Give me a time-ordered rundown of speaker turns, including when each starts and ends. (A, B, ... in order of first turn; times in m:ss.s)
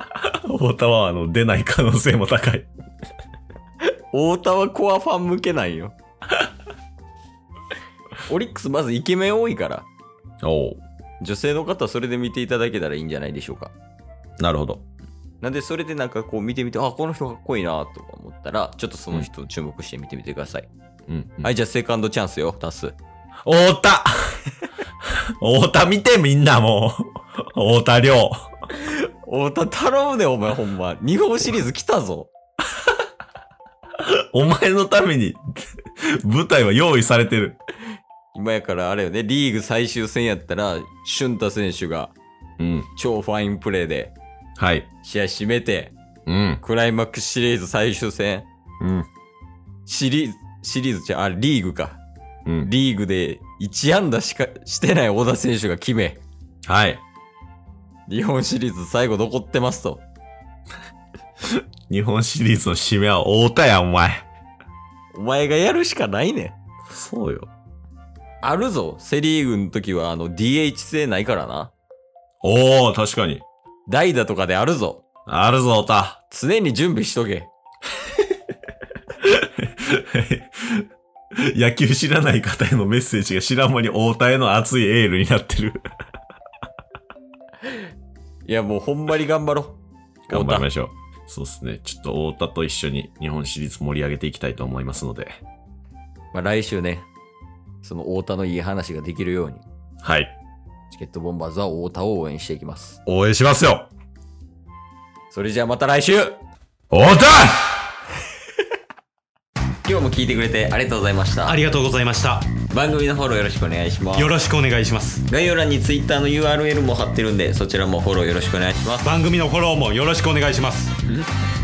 0:00.2-0:02.7 A
0:04.1-0:06.0 B
0:08.3-0:09.9 B
0:10.4-0:10.8 A
0:11.2-0:13.7 B
0:14.4-0:14.8 A
0:15.4-0:20.7 B
0:21.1-0:21.5 A
0:21.4-0:23.0 B
0:23.4-0:24.4 A
0:25.4-0:28.5 A
0:28.8-0:32.3 B
0:34.0-0:35.4 A
0:36.0-0:37.6 A
0:38.3-0:42.2 B
0:42.6-0:42.9 A
0:42.9-0:44.2 B
0:44.6-0:44.9 A
0:45.0-0:46.0 B
0:46.3-0:46.6 A
0:46.6-0:48.5 B
0:48.8-0:49.1 A
0:49.9-0:52.0 B
0:52.6-0:56.2 B
0:56.7-0:57.0 A
0:58.1-1:00.0 B
1:01.9-1:04.3 A
1:05.1-1:06.6 B
1:06.9-1:07.5 A
1:08.4-1:11.7 B
1:12.4-1:13.4 A
1:13.9-1:15.0 B
1:15.3-1:16.2 A
1:16.3-1:17.5 B
1:19.2-1:20.9 A
1:21.4-1:25.8 A
1:28.4-1:30.7 B
1:30.3-1:35.4 A
1:36.3-1:37.1 B
1:37.8-1:39.6 B
1:40.0-1:40.4 A
1:40.9-1:43.0 B
1:43.1-1:43.9 A
1:45.3-1:46.4 B
1:46.9-1:47.5 A
1:49.8-1:51.6 B
1:51.5-1:52.5 C
1:52.7-1:54.4 B
1:54.1-1:55.2 C
1:55.3-1:59.1 B
1:59.0-2:01.0 C